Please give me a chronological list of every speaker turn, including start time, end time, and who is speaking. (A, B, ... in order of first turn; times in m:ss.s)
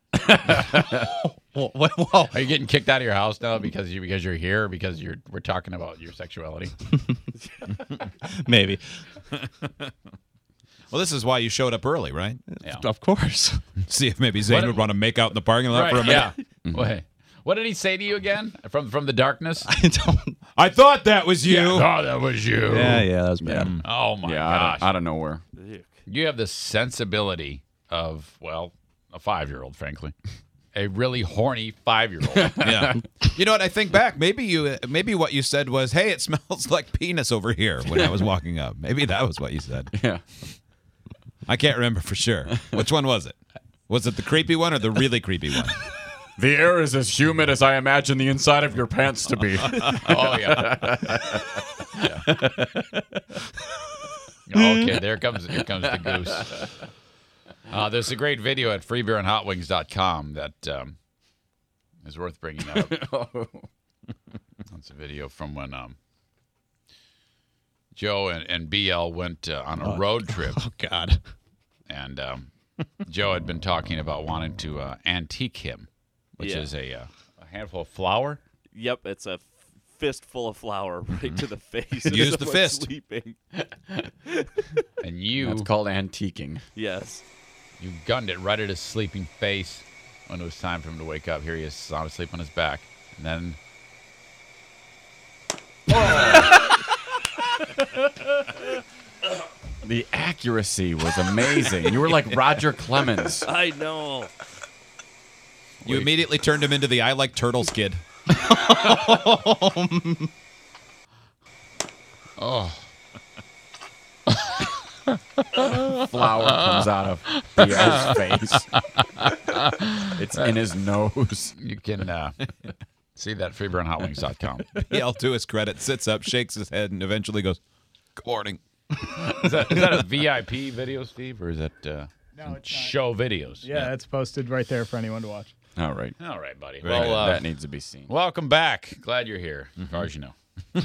0:00.3-0:01.0 A
0:01.0-0:02.4 B
0:02.3-0:06.8 C
0:08.2-0:08.8 B
0:09.3-0:09.9 D
0:10.9-0:12.4 D
0:12.5-0:13.6 B
0:13.9-0:16.3 D
0:14.4-0:14.8 C
0:15.7-0:19.7 C
0:16.6-0:16.9 A
0:19.6-0:20.4 B
0:20.6-0:21.9 D
0:21.4-0:23.1 C
0:22.6-0:23.8 B
0:23.4-0:25.4 A
0:23.8-0:25.0 C
0:25.6-0:25.9 E
0:26.1-0:30.1 C
0:30.7-0:32.6 C
0:32.2-0:33.1 A
0:32.6-0:39.9 D
0:39.9-0:40.2 A
0:41.5-0:43.4 D
0:43.9-0:45.8 D
0:46.4-0:52.7 A
0:49.6-0:50.0 D
0:50.1-0:50.9 C
0:54.5-0:56.6 C
0:57.7-1:01.0 C
1:02.0-1:03.0 C
1:02.6-1:03.7 A
1:04.7-1:06.0 C
1:07.9-1:10.6 C
1:09.8-1:11.2 B
1:11.9-1:12.5 C
1:13.0-1:18.4 C
1:16.4-1:16.7 E
1:18.7-1:23.4 E
1:22.1-1:22.9 D
1:24.3-1:24.8 E
1:25.0-1:25.7 C
1:25.4-1:26.6 A
1:26.7-1:27.2 E
1:27.8-1:33.6 C
1:36.0-1:36.2 A
1:36.5-1:36.7 E
1:39.8-1:43.5 A
1:43.4-1:44.3 E
1:45.8-1:48.0 D
1:48.3-1:50.3 B
1:52.4-1:52.8 C
1:55.8-1:58.7 A
1:57.4-1:58.2 C
1:58.8-2:00.6 C
2:00.1-2:01.5 A
2:01.6-2:02.4 C
2:03.2-2:04.8 C
2:04.9-2:07.6 D
2:08.2-2:08.6 D
2:09.0-2:13.7 C
2:12.3-2:13.0 F
2:13.6-2:15.5 F
2:15.8-2:16.2 A
2:16.2-2:17.5 C
2:16.8-2:17.4 D
2:17.0-2:18.1 A
2:18.1-2:20.3 C